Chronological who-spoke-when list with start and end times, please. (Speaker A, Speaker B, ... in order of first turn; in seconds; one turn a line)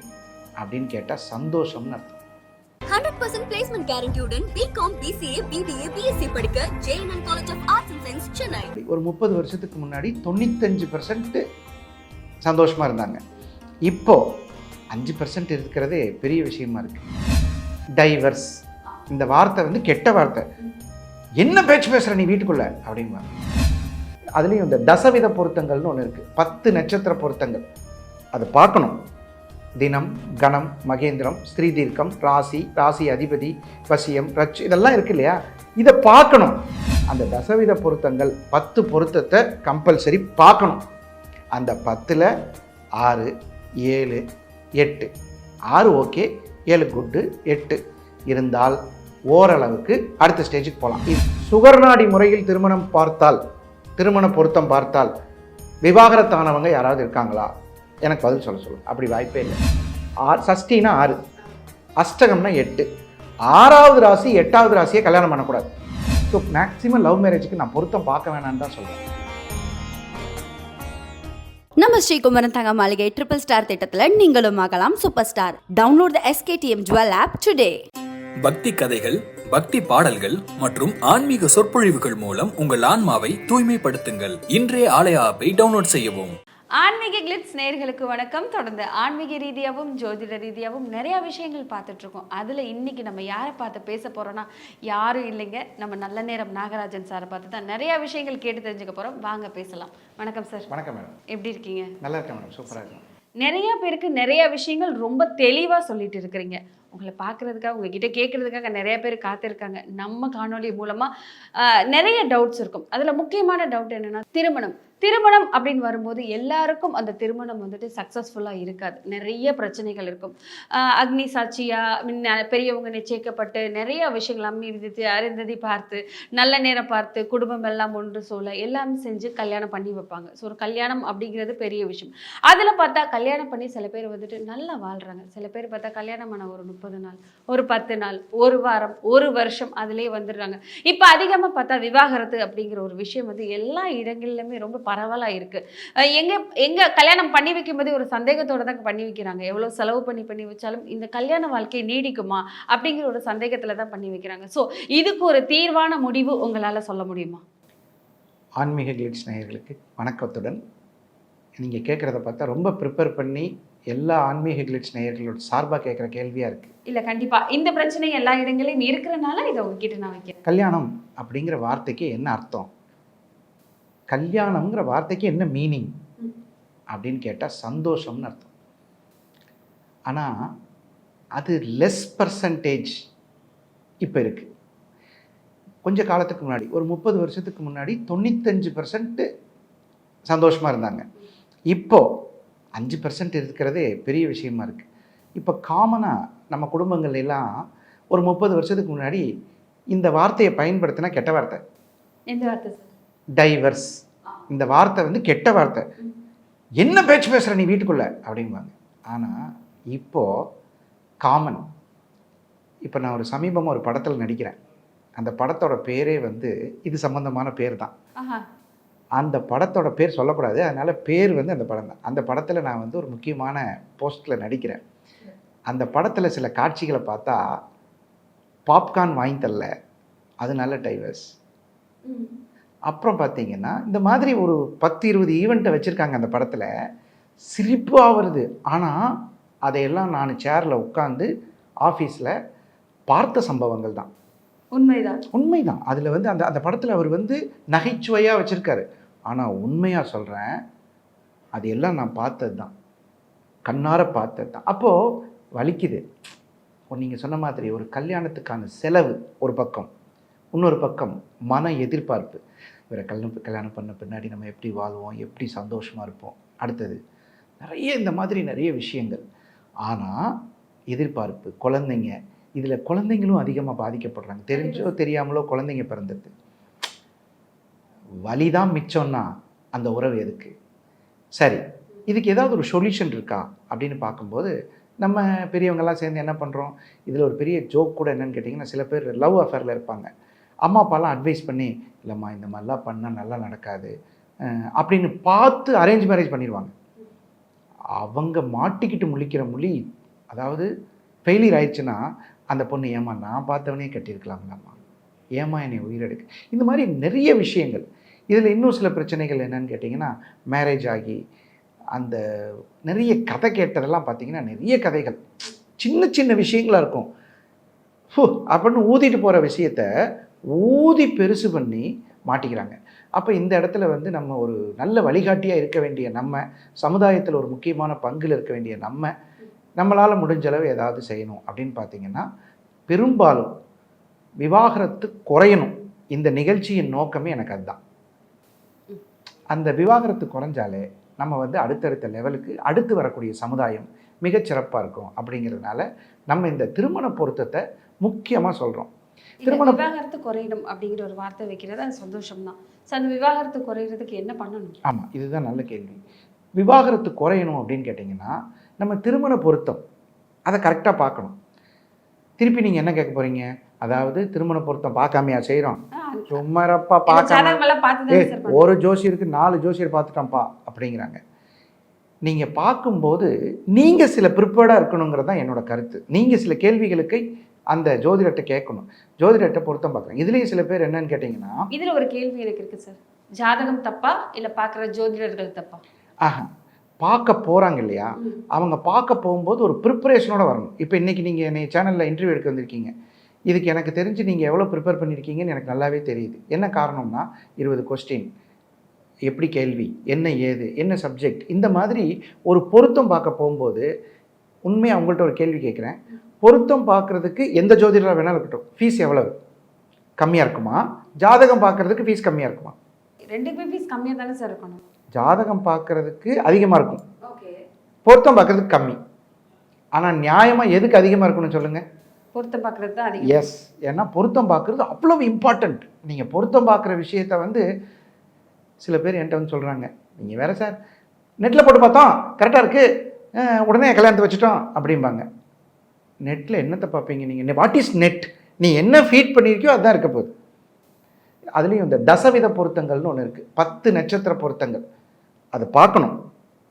Speaker A: 0.6-2.2
Speaker B: 2.9-8.7
Speaker A: 8.7-11.4
Speaker A: 12.4-13.2
Speaker A: 13.8-14.2
Speaker A: 14.9-17.1
Speaker A: 18.0-20.5
Speaker A: 21.4-23.3
Speaker A: 24.4-27.6
Speaker A: 28.3-29.0
Speaker A: 29.8-40.8
Speaker A: 41.5-42.3
Speaker A: 43.0-43.3
Speaker A: 43.8-44.2
Speaker A: 44.8-45.1
Speaker A: 45.7-48.8
Speaker A: 49.3-53.4
Speaker A: 54.0-55.1
Speaker A: 55.8-57.5
Speaker A: 58.0-59.6
Speaker A: 60.2-61.2
Speaker A: 62.0-62.9
Speaker A: 63.5-65.7
Speaker A: 66.3-69.0
Speaker C: 71.8-77.8
Speaker D: 78.4-86.3
Speaker E: 86.8-100.7
Speaker A: 100.7-101.2
Speaker E: 101.3-102.0
Speaker A: 102.0-103.0
Speaker E: 103.4-157.4
Speaker A: 158.6-160.6
Speaker A: 161.6-166.7
Speaker E: 166.9-170.4
Speaker A: 170.4-172.7
Speaker A: 174.1-175.9
Speaker A: 176.9-178.5
Speaker A: 181.4-183.0
Speaker A: 184.0-184.5
Speaker A: 185.8-189.3
Speaker A: 190.3-191.1
Speaker A: 191.7-192.1
Speaker A: 192.8-194.9
Speaker A: 195.4-197.5
Speaker A: 198.1-199.2
Speaker A: 199.9-201.6
Speaker E: 202.3-202.9
Speaker A: 203.4-205.9
Speaker A: 206.8-210.4
Speaker A: 211.2-211.7
Speaker A: 212.8-214.6
Speaker A: 215.2-217.9
Speaker E: 218.2-218.4
Speaker A: 219.2-224.8
Speaker A: 225.7-227.4
Speaker A: 228.7-229.7
Speaker A: 230.4-231.3
Speaker E: 232.1-232.3
Speaker A: 232.9-236.7
Speaker A: 237.5-241.3
Speaker A: 241.8-242.3
Speaker A: 243.1-244.1
Speaker E: 244.7-245.2
Speaker A: 245.3-250.6
Speaker A: 251.6-252.7
Speaker A: 253.7-256.1
Speaker A: 256.9-259.9
Speaker A: 260.5-267.0
Speaker A: 267.6-269.2
Speaker A: 269.9-270.3
Speaker A: 270.9-276.3
Speaker E: 274.5-274.9
Speaker A: 278.2-280.5
Speaker A: 281.4-290.1
Speaker A: 290.6-293.9
Speaker A: 294.4-296.7
Speaker A: 298.0-300.7
Speaker A: 301.3-302.0
Speaker A: 302.5-304.8
Speaker A: 305.4-311.2
Speaker A: 311.9-312.2
Speaker A: 312.9-315.2
Speaker A: 315.8-317.1
Speaker A: 318.1-319.9
Speaker A: 320.5-329.1
Speaker A: 329.8-332.3
Speaker A: 332.9-333.5
Speaker A: 334.4-337.8
Speaker A: 339.5-348.9
Speaker E: 349.4-354.8
Speaker A: 349.5-349.8
Speaker A: 354.8-356.0
Speaker A: 356.6-359.8
Speaker A: 360.5-361.4
Speaker A: 362.4-367.6
Speaker E: 365.9-366.4
Speaker E: 367.1-368.6
Speaker A: 368.1-371.2
Speaker A: 372.2-381.6
Speaker E: 381.7-385.8
Speaker A: 386.2-386.5
Speaker A: 387.0-392.9
Speaker A: 393.5-398.3
Speaker A: 399.3-403.9
Speaker A: 404.7-409.3
Speaker A: 410.2-412.8
Speaker E: 413.3-414.9
Speaker A: 415.1-417.0
Speaker E: 417.2-417.6
Speaker A: 418.1-419.0
Speaker A: 419.9-421.8
Speaker E: 422.3-423.5
Speaker A: 423.2-427.6
Speaker A: 428.8-430.8
Speaker A: 431.4-432.9
Speaker A: 433.4-435.2
Speaker A: 436.2-440.3
Speaker A: 441.6-444.8
Speaker A: 445.5-446.2